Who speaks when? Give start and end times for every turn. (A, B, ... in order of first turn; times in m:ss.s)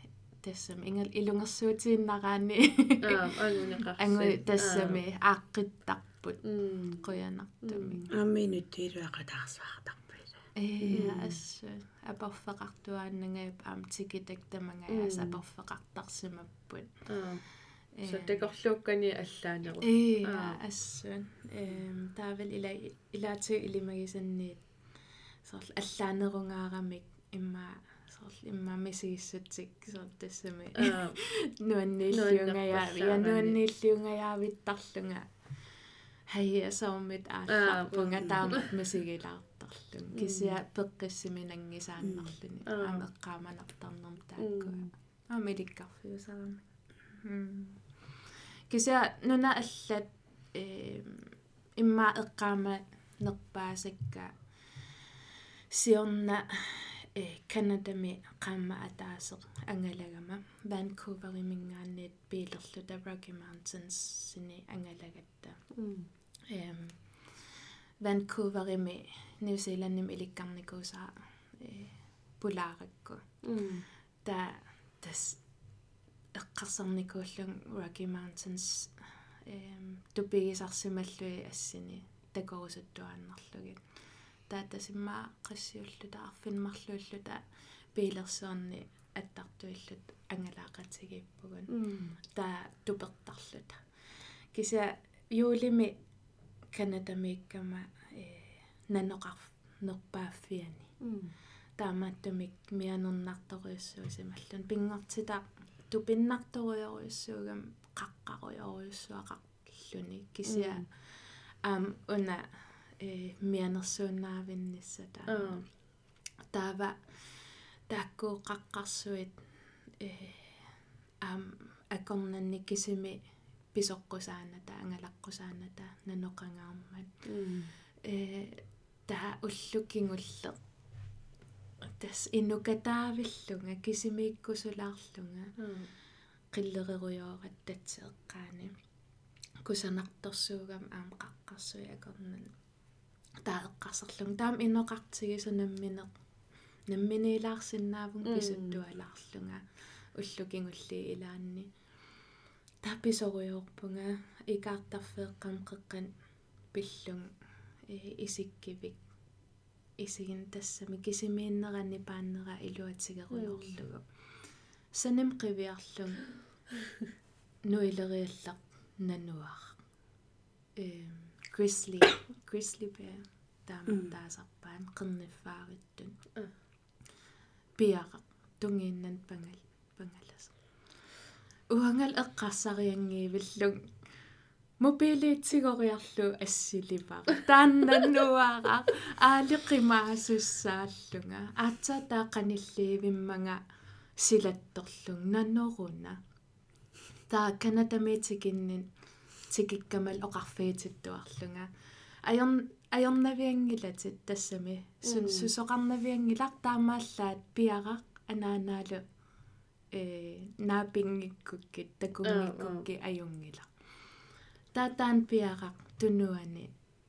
0:00.4-0:08.1 A
0:03.0-0:05.0 B
0:06.4-0:07.1 B
0:07.6-0:08.0 B
0:08.1-0:11.4 C
0:10.6-0:16.9 A
0:10.9-0:11.2 B
0:14.9-0:15.4 B
0:17.1-0:17.4 B
0:18.0-0:18.5 A
0:18.0-0:20.6 B
0:19.8-0:24.6 A
0:25.4-0:35.3 A
0:30.8-0:31.2 B
0:32.1-0:33.6 B
0:36.3-0:47.8 A
0:37.5-0:38.7 B
0:40.1-0:40.6 B
0:42.0-0:42.3 C
0:42.6-0:43.0 B
0:44.4-0:44.9 B
0:48.7-0:54.3 A
0:55.7-1:05.6 A
1:05.7-1:06.1 B
1:06.5-1:13.2 A
1:13.4-1:13.8 B
1:14.2-1:15.4 A
1:16.3-1:23.8 A
1:24.5-1:27.4 A
1:27.9-1:33.8 A
1:31.7-1:32.2 B
1:34.5-1:36.0 A
1:36.7-1:40.9 A
1:41.0-1:41.3 B
1:41.8-1:55.6 A
1:50.4-1:50.8 B
1:55.3-1:55.6 B
1:56.5-1:59.4 A
2:00.0-2:00.7 A
2:01.2-2:03.2 A
2:03.7-2:07.1 A
2:07.2-2:07.7 B
2:08.0-2:10.6 A
2:12.0-2:15.5 A
2:15.6-2:15.9 B
2:16.5-2:18.7 A
2:19.6-2:22.5 A
2:23.4-2:26.1 A
2:26.9-2:29.6 A
2:28.2-2:28.8 B
2:30.1-2:31.7 A
2:32.8-2:36.1 A
2:36.7-2:37.3 A
2:37.9-2:39.0 A
2:40.0-2:44.0 A
2:43.3-2:43.8 B
2:44.9-2:46.2 A
2:47.7-2:49.8 A
2:50.8-2:56.2 A
2:53.9-2:54.1 C
2:57.8-3:00.5 A
3:01.7-3:03.9 A
3:04.8-3:13.6 A
3:14.2-3:16.2 A
3:17.3-3:18.9 A
3:19.5-3:21.7 A
3:22.2-3:29.0 A
3:25.0-3:25.5 B
3:29.9-3:33.7 A
3:32.2-3:32.8 B
3:34.7-3:36.7 A